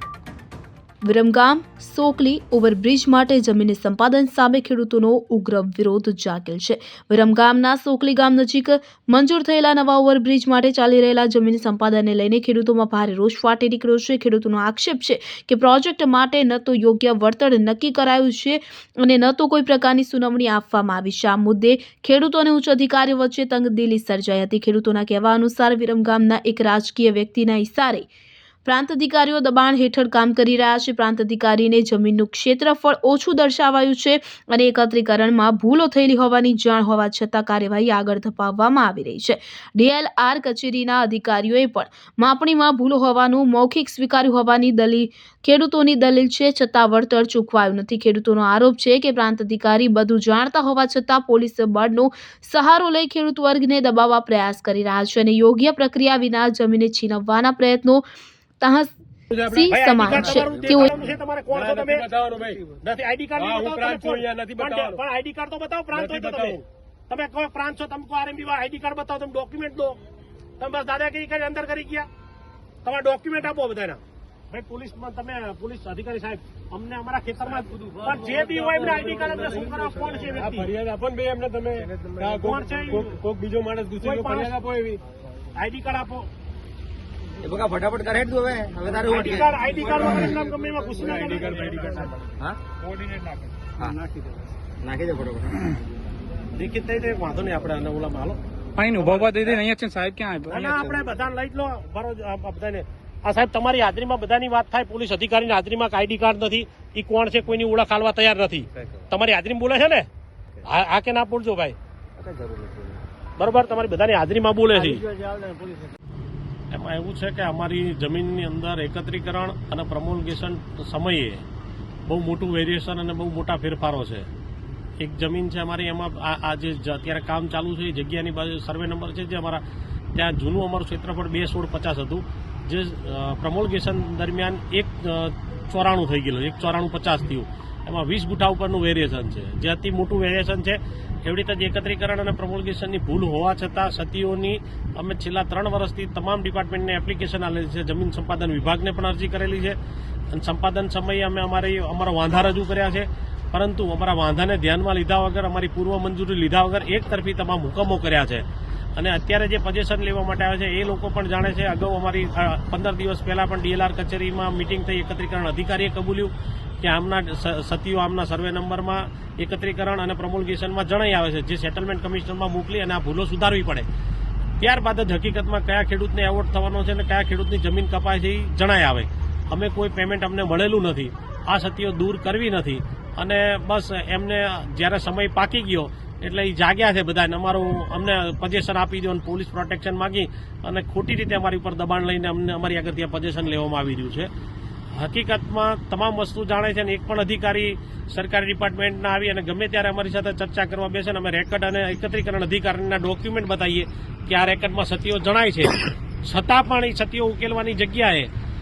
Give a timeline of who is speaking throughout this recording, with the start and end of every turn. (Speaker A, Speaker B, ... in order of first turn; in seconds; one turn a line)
Speaker A: 1.0-28.1
Speaker A: 28.6-58.0
Speaker A: 58.6-58.9
Speaker B: 59.3-60.5
Speaker A: 59.5-60.9
Speaker C: 59.7-62.1
Speaker B: 61.5-62.8
Speaker C: 62.8-70.0
Speaker B: 63.4-65.0
Speaker B: 65.9-66.6
Speaker C: 70.6-72.1
Speaker C: 72.8-80.7
Speaker B: 78.0-85.0
Speaker C: 82.3-83.1
Speaker C: 84.0-84.5
Speaker C: 85.5-86.3
Speaker D: 87.4-90.1
Speaker C: 89.0-92.1
Speaker B: 90.9-92.1
Speaker D: 94.8-95.6
Speaker C: 96.5-98.4
Speaker E: 98.8-100.9
Speaker C: 99.0-99.5
Speaker C: 100.5-110.1
Speaker C: 110.6-111.8
Speaker D: 112.2-113.0
Speaker C: 113.4-115.0
Speaker C: 116.7-121.4
Speaker C: 122.1-124.3
Speaker C: 125.0-129.6
Speaker C: 130.1-149.8
Speaker C: 150.3-158.4
Speaker C: 158.9-173.9
Speaker C: 174.6-194.3
Speaker C: 195.0-208.3